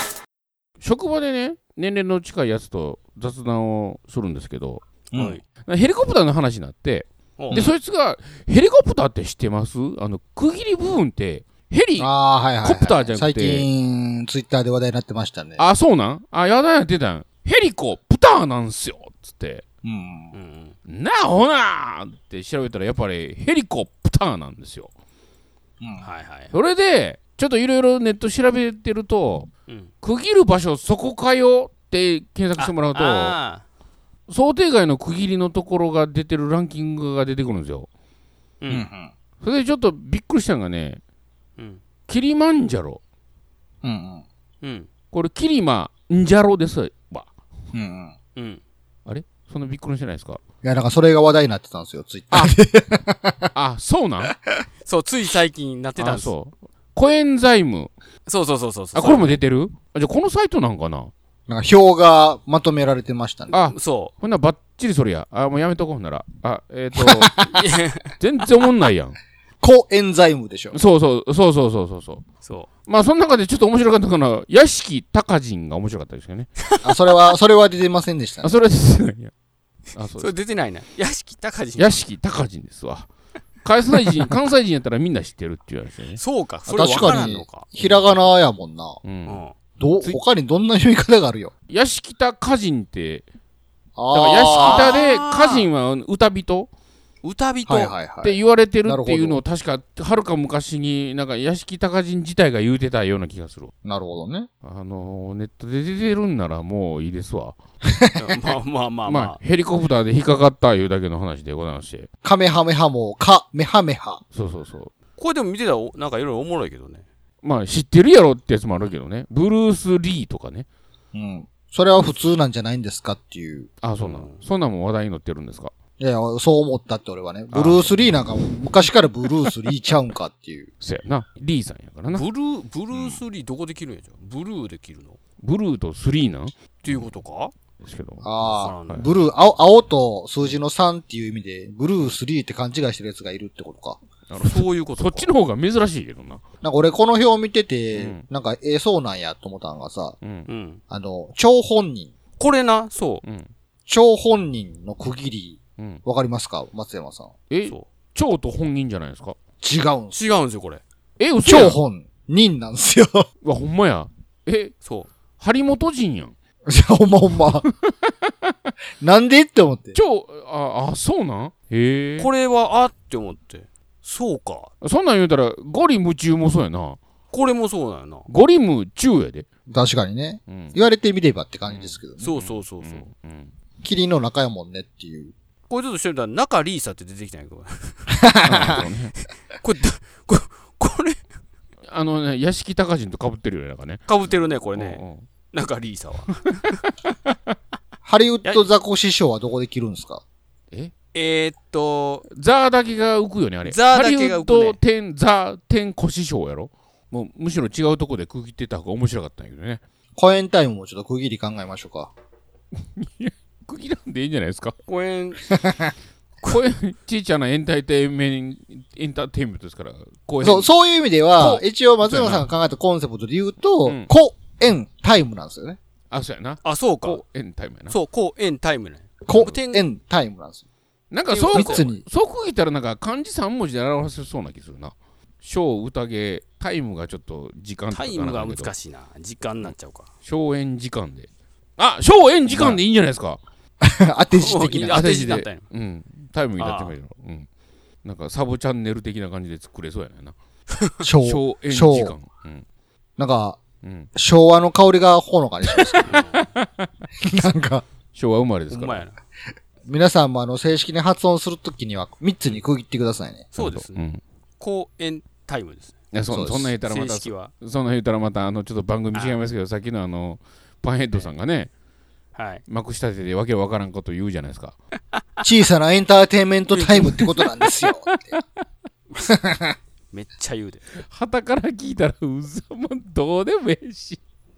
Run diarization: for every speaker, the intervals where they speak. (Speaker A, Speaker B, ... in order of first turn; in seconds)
Speaker A: 0.8-4.8, 5.6-12.1, 12.6-13.7, 15.6-19.6, 20.9-24.9, 26.5-29.5, 30.0-33.4, 34.3-37.9, 39.4-41.0, 42.1-43.0, 45.1-47.3, 49.0-50.4, 53.5-54.4, 56.0-57.9, 59.0-61.1, 63.5-67.4, 68.2-69.2, 70.7-72.2, 72.9-76.5, 78.4-79.3, 79.9-80.3, 81.8-83.1, 83.6-86.2, 87.0-87.2, 89.0-89.4, 91.7-93.3, 94.1-96.7, 98.2-103.7, 104.6-107.6, 109.1-112.1, 114.3-114.9, 117.4-120.7, 123.8-125.7, 127.5-128.1, 130.8-132.2, 135.4-136.6, 137.8-138.4, 144.3-146.4, 147.9-148.2, 150.2-150.5, 153.2-153.5, 157.5-159.4, 161.2-161.8, 163.4-164.7, 165.4-166.3, 167.7-168.5, 169.9-172.3, 174.8-177.0, 178.3-179.5, 180.5-180.8, 181.7-183.5, 188.4-189.2, 191.9-194.0, 194.7-195.2, 197.0-197.3, 202.3-209.8, 212.8-214.8, 216.4-220.7, 221.4-222.5, 226.1-227.9, 231.1-238.7, 239.6-243.4, 244.8-247.5, 248.0-250.3, 251.2-252.6, 253.8-254.1, 256.1-256.9, 258.1-259.0, 263.6-264.2, 266.1-271.7, 272.7-274.8, 278.2-278.4, 281.0-284.2
Speaker B: 5.1-5.4, 7.4-7.7, 20.3-20.7, 26.0-26.5, 32.6-33.6, 38.6-38.9, 44.6-44.9, 48.4-48.6, 54.9-56.3, 58.2-59.4, 63.7-64.1, 67.5-68.1, 80.2-82.0, 86.1-88.3, 89.3-89.5, 94.4-95.7, 97.2-97.9, 108.2-109.4, 115.2-117.0, 124.0-124.4, 132.1-135.2, 136.8-137.5, 138.4-139.1, 144.4-145.3, 150.5-150.8, 152.4-153.2, 160.1-160.8, 164.8-165.1, 172.2-174.7, 177.3-178.3, 182.2-183.1, 185.7-188.9, 189.6-191.2, 194.1-196.5, 201.1-202.2, 203.6-204.8, 214.9-215.5, 226.6-227.2, 227.9-229.9, 231.3-231.9, 237.9-240.1, 244.3-245.6, 246.6-247.0, 255.9-256.4, 258.7-259.1, 263.5-264.0, 264.6-265.9, 266.8-267.5, 272.3-272.6, 276.7-277.5, 280.1-280.9
Speaker C: 5.1-5.4, 12.0-15.7, 19.8-20.3, 25.8-26.1, 38.7-39.1, 43.8-44.2, 47.7-48.1, 50.6-53.5, 61.5-63.6, 67.0-67.6, 69.6-70.8, 76.8-78.5, 86.7-89.0, 89.8-91.5, 94.0-95.0, 97.7-99.4, 103.8-104.5, 112.2-114.2, 121.1-123.7, 126.0-130.7, 132.9-133.2, 138.2-144.0, 146.6-150.2, 150.9-152.1, 153.9-157.3, 159.6-160.4, 161.4-163.3, 166.7-167.7, 169.0-170.0, 179.7-182.3, 183.8-185.3, 188.1-188.8, 198.1-200.2, 210.2-212.1, 215.5-215.9, 220.4-225.8, 229.2-230.6, 231.5-232.1, 242.5-242.8, 243.8-245.2, 251.0-252.2, 253.2-253.6, 254.2-256.1, 257.2-257.8, 259.9-263.5, 266.3-266.8, 275.4-278.4, 279.2-279.8